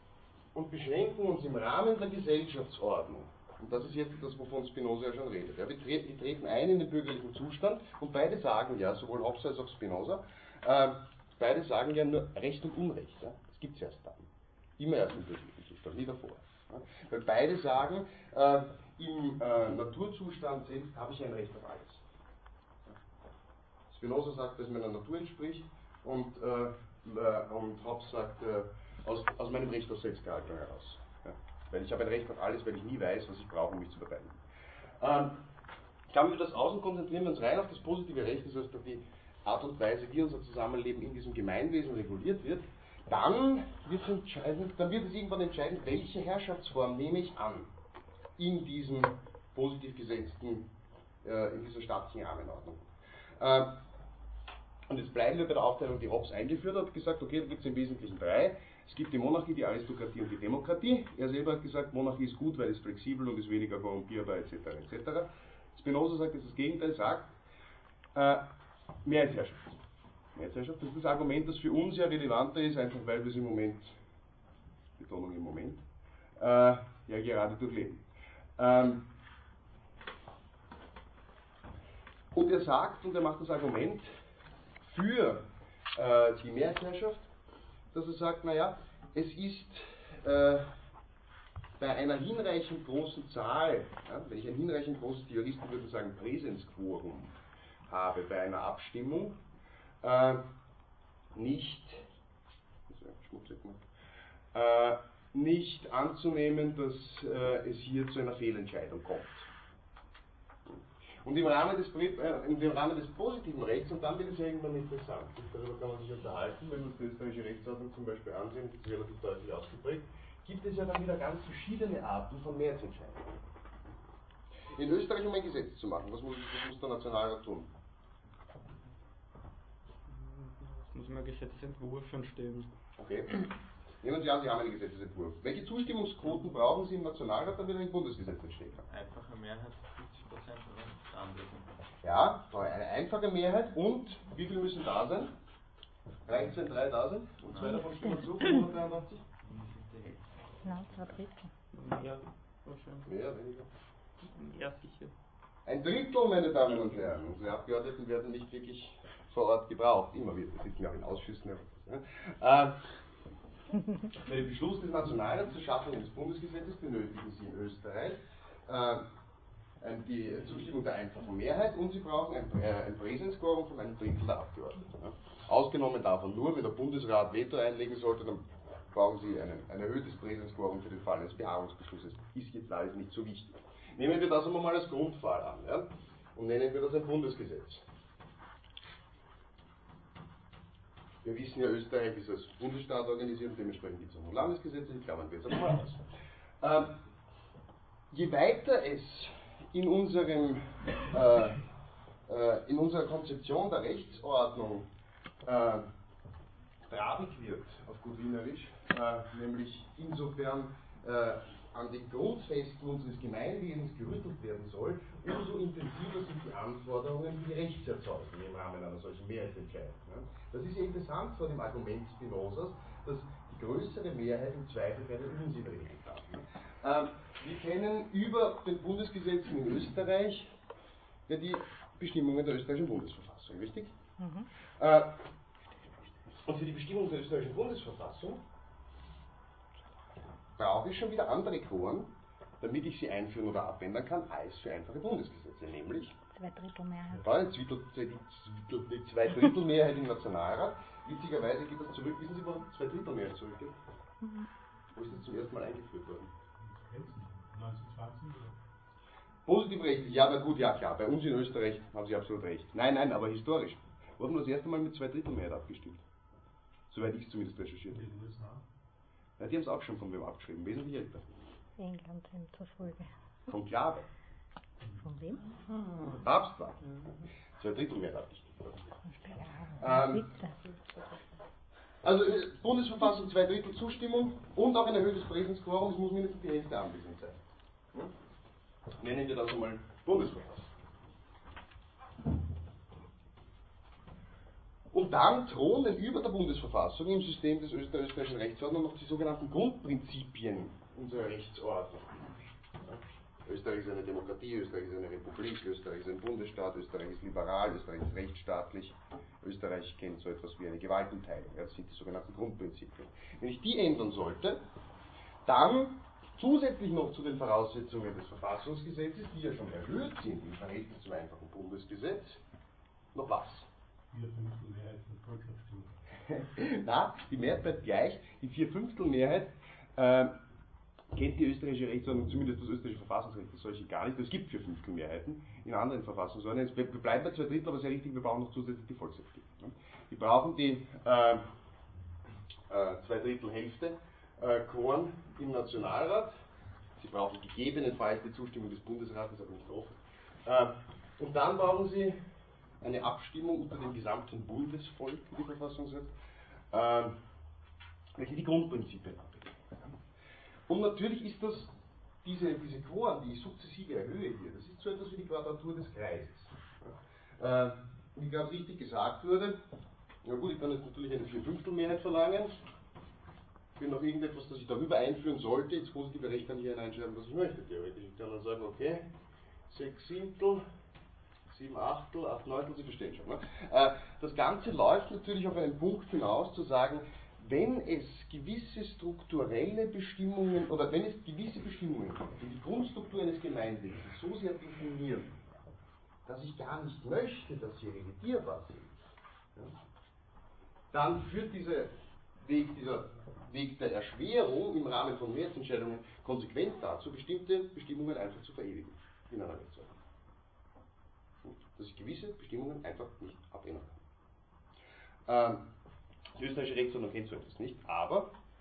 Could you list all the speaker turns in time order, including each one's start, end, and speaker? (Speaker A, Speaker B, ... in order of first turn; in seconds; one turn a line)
Speaker A: 0.5-22.0
Speaker A: 23.9-34.4
Speaker A: 35.0-35.4
Speaker A: 36.1-47.7
Speaker A: 48.4-50.7
Speaker A: 51.2-52.8
Speaker A: 53.4-53.8
Speaker A: 54.9-67.3
Speaker A: 68.1-68.5
Speaker A: 69.0-69.8
Speaker A: 70.3-74.0
Speaker A: 75.0-75.8
Speaker A: 76.4-78.0
Speaker A: 78.6-79.1
Speaker A: 82.3-84.1
Speaker A: 84.8-87.3
Speaker A: 87.9-90.7
Speaker A: 91.8-97.3
Speaker A: 97.9-99.4
Speaker A: 100.0-100.5
Speaker A: 101.3-102.0
Speaker A: 102.9-103.8
Speaker A: 104.5-109.5
Speaker A: 110.7-123.4
Speaker A: 124.7-127.7
Speaker B: 130.1-132.7
Speaker A: 133.0-133.5
Speaker A: 134.0-138.8
Speaker C: 138.9-141.8
Speaker A: 142.0-145.3
Speaker A: 146.3-149.2
Speaker C: 147.5-147.8
Speaker D: 147.9-148.5
Speaker C: 149.4-150.5
Speaker D: 150.6-151.5
Speaker B: 151.7-153.1
Speaker A: 153.1-153.7
Speaker B: 154.2-155.1
Speaker A: 155.7-162.8
Speaker A: 164.2-169.1
Speaker A: 169.8-187.8
Speaker A: 191.2-196.0
Speaker A: 196.6-197.0
Speaker A: 198.1-201.6
Speaker A: 202.3-204.9
Speaker A: 205.4-205.9
Speaker A: 206.9-230.5
Speaker A: 231.3-233.9
Speaker D: 234.2-234.5
Speaker A: 234.8-235.2
Speaker A: 236.4-238.4
Speaker A: 240.6-246.2
Speaker D: 246.3-247.2
Speaker A: 247.1-253.7
Speaker A: 254.9-256.3
Speaker E: 256.6-258.6
Speaker A: 259.5-266.0
Speaker A: 266.9-268.0
Speaker E: 267.9-268.6
Speaker A: 269.4-271.3
Speaker D: 271.8-273.1
Speaker A: 273.5-274.0
Speaker D: 275.0-275.4
Speaker A: 275.9-276.8
Speaker A: 277.6-278.9
Speaker D: 279.1-281.1
Speaker A: 279.8-280.3
Speaker A: 282.0-287.4
Speaker A: 289.0-290.7
Speaker A: 294.9-302.3
Speaker A: 302.8-314.6
Speaker A: 315.4-322.4
Speaker A: 323.1-323.7
Speaker E: 324.1-325.9
Speaker A: 326.3-330.3
Speaker A: 331.1-341.4
Speaker A: 342.7-346.4
Speaker A: 347.0-352.2
Speaker A: 352.8-356.1
Speaker A: 356.7-357.2
Speaker A: 358.1-359.9
Speaker A: 360.7-369.6
Speaker A: 370.2-372.6
Speaker A: 373.8-379.1
Speaker A: 379.7-380.6
Speaker A: 381.5-395.4
Speaker A: 396.2-398.9
Speaker A: 400.9-409.9
Speaker A: 411.4-414.0
Speaker A: 415.3-415.7
Speaker A: 416.4-418.3